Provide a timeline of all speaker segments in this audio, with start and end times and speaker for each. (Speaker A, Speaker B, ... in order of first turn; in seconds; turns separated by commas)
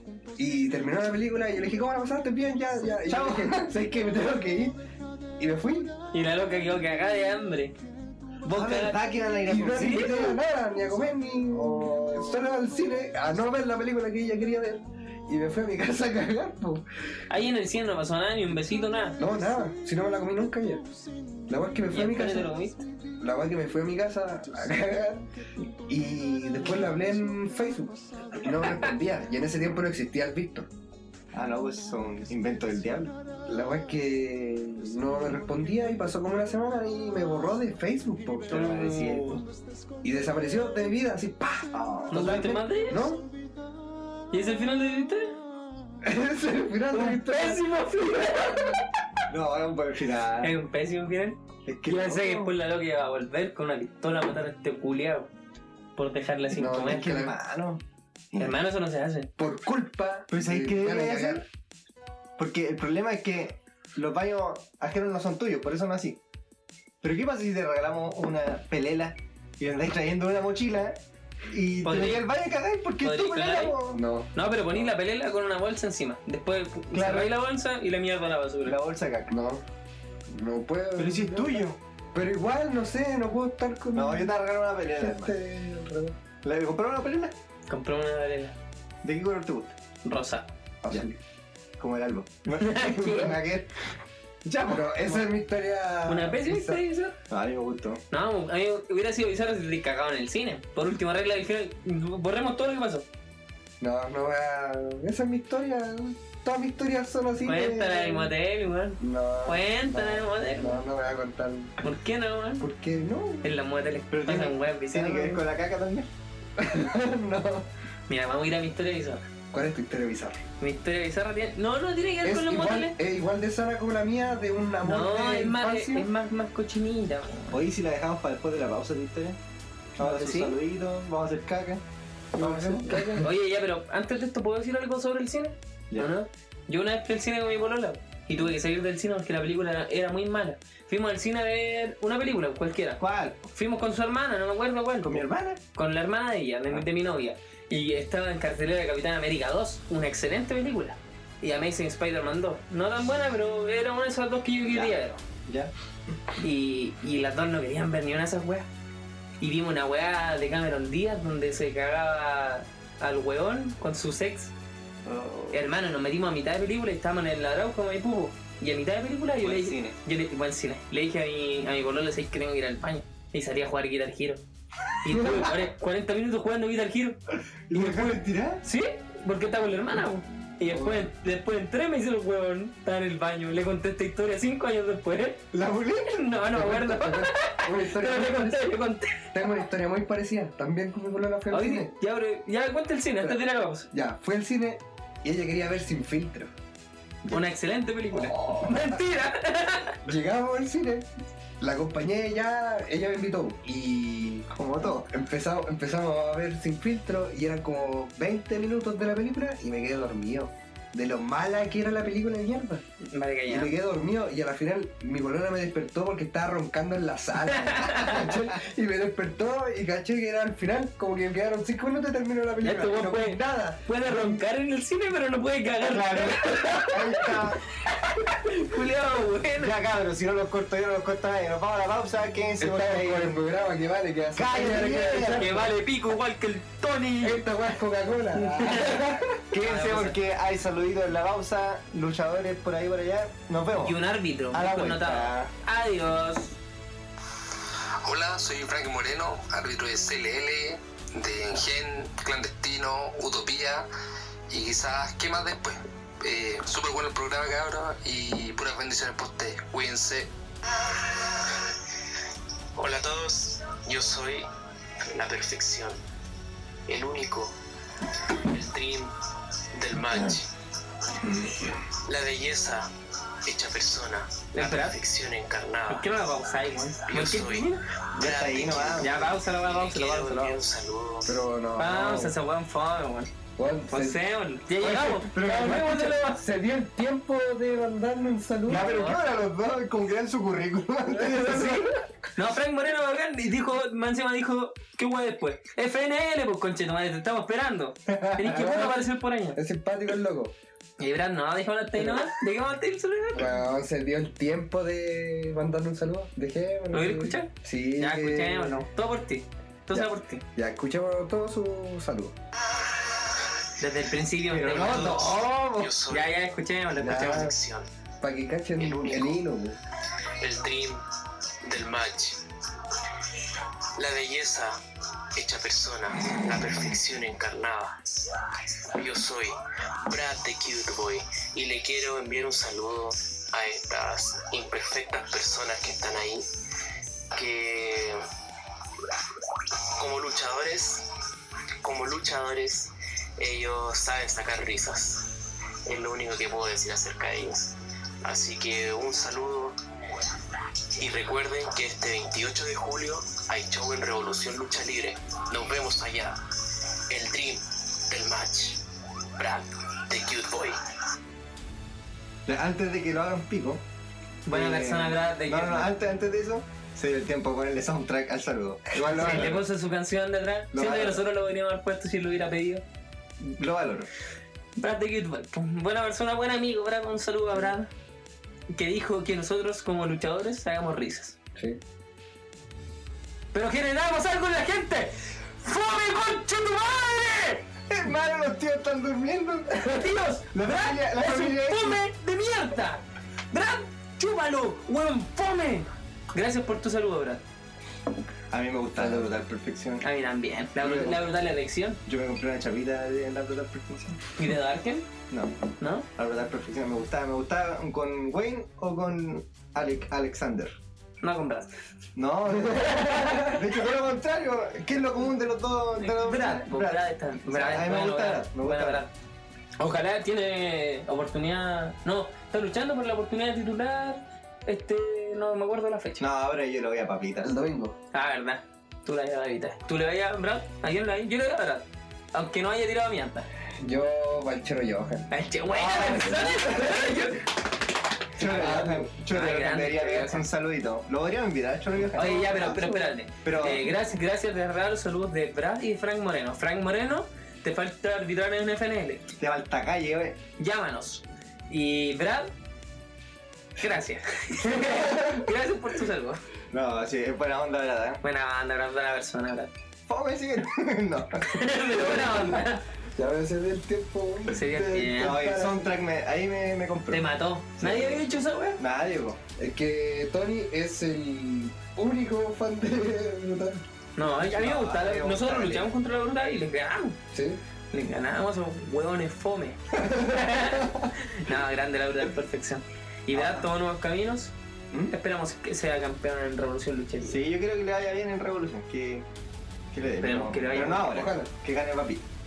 Speaker A: 0.4-4.8, Speaker B: 3.1-3.7, Speaker A: 5.4-5.9, Speaker C: 6.1-7.8, Speaker C: 8.4-9.0, Speaker B: 8.5-10.4, Speaker A: 9.5-16.8, Speaker C: 9.7-10.1, Speaker C: 17.3-19.2, Speaker A: 19.2-20.8, Speaker A: 21.5-22.5, Speaker C: 21.9-22.8, Speaker A: 23.2-25.3, Speaker A: 25.9-30.7, Speaker B: 31.3-33.1, Speaker A: 33.5-38.6, Speaker B: 38.5-39.4, Speaker C: 38.5-39.4, Speaker A: 40.0-43.2, Speaker B: 41.7-42.3, Speaker C: 42.1-43.1, Speaker C: 44.3-45.4, Speaker A: 46.0-47.6, Speaker C: 46.9-48.8, Speaker B: 49.3-50.5, Speaker C: 50.4-55.3, Speaker B: 51.6-52.5, Speaker C: 56.0-57.1, Speaker A: 56.5-57.3, Speaker B: 56.6-57.8, Speaker C: 58.4-59.3, Speaker A: 59.4-61.4, Speaker B: 60.3-61.4, Speaker B: 62.4-66.2, Speaker B: 67.0-71.0, Speaker B: 71.5-74.0, Speaker C: 71.8-72.2, Speaker C: 73.0-73.7, Speaker A: 73.9-74.3, Speaker C: 74.3-78.8, Speaker B: 76.9-77.3, Speaker B: 78.7-79.3, Speaker A: 79.3-79.6, Speaker A: 80.3-84.3, Speaker B: 81.0-81.8, Speaker B: 83.9-85.3, Speaker A: 84.9-86.2, Speaker B: 86.4-87.3, Speaker C: 87.7-88.5, Speaker B: 89.0-89.7, Speaker C: 90.0-90.5, Speaker A: 90.8-91.2, Speaker B: 91.8-93.7, Speaker C: 92.5-93.3, Speaker B: 94.4-95.1, Speaker A: 94.7-96.8, Speaker C: 96.1-97.2, Speaker B: 97.3-98.0, Speaker C: 98.1-103.0, Speaker A: 103.8-108.3, Speaker C: 107.4-110.8, Speaker A: 109.0-111.8, Speaker C: 111.8-112.7, Speaker A: 112.6-113.5, Speaker C: 113.4-115.4, Speaker B: 114.1-116.1, Speaker A: 116.6-117.7, Speaker C: 118.1-119.2, Speaker A: 119.5-120.4, Speaker C: 120.6-123.0, Speaker A: 122.2-126.1, Speaker C: 124.8-127.6, Speaker B: 127.5-129.4, Speaker B: 130.0-131.8, Speaker C: 130.0-130.5, Speaker B: 132.4-132.9, Speaker C: 132.4-143.0, Speaker A: 132.4-133.2, Speaker B: 143.0-143.4, Speaker C: 143.5-155.2, Speaker B: 145.1-145.6, Speaker B: 154.7-154.9, Speaker B: 155.4-155.7, Speaker C: 156.4-158.7, Speaker C: 159.4-164.5, Speaker B: 165.0-165.6, Speaker C: 165.5-174.4, Speaker B: 169.4-169.9, Speaker C: 175.0-177.2, Speaker A: 175.2-175.4, Speaker B: 177.7-178.6, Speaker C: 177.7-185.4, Speaker A: 180.7-181.1, Speaker B: 185.5-186.2, Speaker C: 186.1-189.4, Speaker A: 186.5-188.8, Speaker A: 189.3-191.9, Speaker C: 191.5-193.9, Speaker A: 193.9-196.5, Speaker C: 197.2-200.0, Speaker A: 198.1-199.0, Speaker A: 200.0-201.1, Speaker A: 201.6-212.8, Speaker B: 204.5-205.1, Speaker C: 213.0-213.7, Speaker A: 213.5-224.4, Speaker C: 217.5-218.3, Speaker C: 222.6-229.7, Speaker B: 225.9-227.6, Speaker B: 229.6-233.4, Speaker A: 232.6-235.7, Speaker B: 234.3-235.7, Speaker C: 235.2-237.4, Speaker A: 237.2-239.4, Speaker C: 238.3-240.2, Speaker B: 239.5-244.0, Speaker C: 243.8-246.6, Speaker B: 244.5-245.5, Speaker D: 248.0-253.9, Speaker D: 254.5-260.3, Speaker E: 260.9-261.6, Speaker E: 262.8-264.4, Speaker E: 265.1-266.0, Speaker E: 266.9-269.1, Speaker E: 269.7-270.5, Speaker B: 270.1-270.4, Speaker E: 271.1-272.9, Speaker E: 273.4-281.4, Speaker C: 274.5-274.9, Speaker C: 275.9-277.8, Speaker B: 278.1-279.3, Speaker C: 279.0-280.6, Speaker A: 281.2-282.3, Speaker C: 281.8-283.3, Speaker A: 283.6-284.2, Speaker C: 283.9-286.4, Speaker B: 284.8-286.0, Speaker A: 285.6-288.9, Speaker B: 288.7-291.9, Speaker C: 288.8-289.2, Speaker A: 291.2-291.8, Speaker C: 291.3-299.6, Speaker B: 298.1-298.9, Speaker A: 299.5-300.6, Speaker C: 301.0-303.5, Speaker A: 303.3-308.8, Speaker C: 306.9-310.4, Speaker A: 309.9-312.3, Speaker C: 313.8-315.3, Speaker B: 314.5-315.9, Speaker E: 314.7-316.4, Speaker C: 316.1-317.5, Speaker A: 317.0-317.6, Speaker E: 317.0-317.9, Speaker A: 318.2-319.8, Speaker E: 318.8-319.4, Speaker E: 320.4-321.0, Speaker E: 321.6-324.8, Speaker E: 325.3-336.4, Speaker E: 337.3-338.2, Speaker E: 339.6-341.1, Speaker E: 341.8-349.8, Speaker E: 350.9-358.8, Speaker E: 359.4-360.8, Speaker B: 362.5-363.8, Speaker C: 364.4-365.9, Speaker B: 364.5-369.6, Speaker C: 369.1-372.8, Speaker B: 370.7-371.2, Speaker B: 373.4-374.1, Speaker C: 374.8-377.9, Speaker C: 378.7-381.4, Speaker C: 383.5-387.6, Speaker B: 387.9-390.0, Speaker C: 389.8-397.4, Speaker B: 390.5-392.0, Speaker B: 398.5-400.0, Speaker A: 398.9-399.3, Speaker C: 400.0-402.0, Speaker A: 400.8-401.2, Speaker B: 402.1-404.2, Speaker C: 404.4-405.1, Speaker B: 405.3-405.6, Speaker C: 405.8-406.1, Speaker B: 406.1-410.7, Speaker C: 411.2-411.7, Speaker B: 412.1-419.0, Speaker C: 412.8-413.6, Speaker A: 412.8-413.6, Speaker C: 416.0-419.1, Speaker C: 419.8-426.2, Speaker B: 426.2-427.5, Speaker A: 427.4-427.9, Speaker C: 428.1-433.5, Speaker A: 433.8-435.3, Speaker C: 435.3-437.5, Speaker B: 435.7-436.9, Speaker A: 436.0-437.0, Speaker B: 438.4-442.8, Speaker C: 438.4-440.4, Speaker A: 438.4-439.1, Speaker C: 442.1-449.3, Speaker A: 442.5-443.0, Speaker B: 443.4-444.0, Speaker B: 449.4-450.4, Speaker C: 450.6-452.5, Speaker C: 453.8-456.4, Speaker B: 454.8-455.4, Speaker B: 456.7-458.2, Speaker C: 458.2-459.7, Speaker B: 460.1-462.2, Speaker C: 461.4-462.8, Speaker A: 462.1-462.6, Speaker A: 463.1-465.9, Speaker C: 464.5-465.4, Speaker B: 465.0-467.2, Speaker C: 467.1-468.8, Speaker B: 467.8-469.4, Speaker A: 469.6-473.8, Speaker C: 474.1-477.2, Speaker B: 474.2-475.9, Speaker A: 477.3-477.6, Speaker C: 477.9-484.5, Speaker A: 480.1-481.1, Speaker B: 483.3-483.6, Speaker C: 485.1-487.3, Speaker B: 487.2-489.2, Speaker B: 489.9-492.2, Speaker C: 490.2-491.1, Speaker A: 490.9-491.5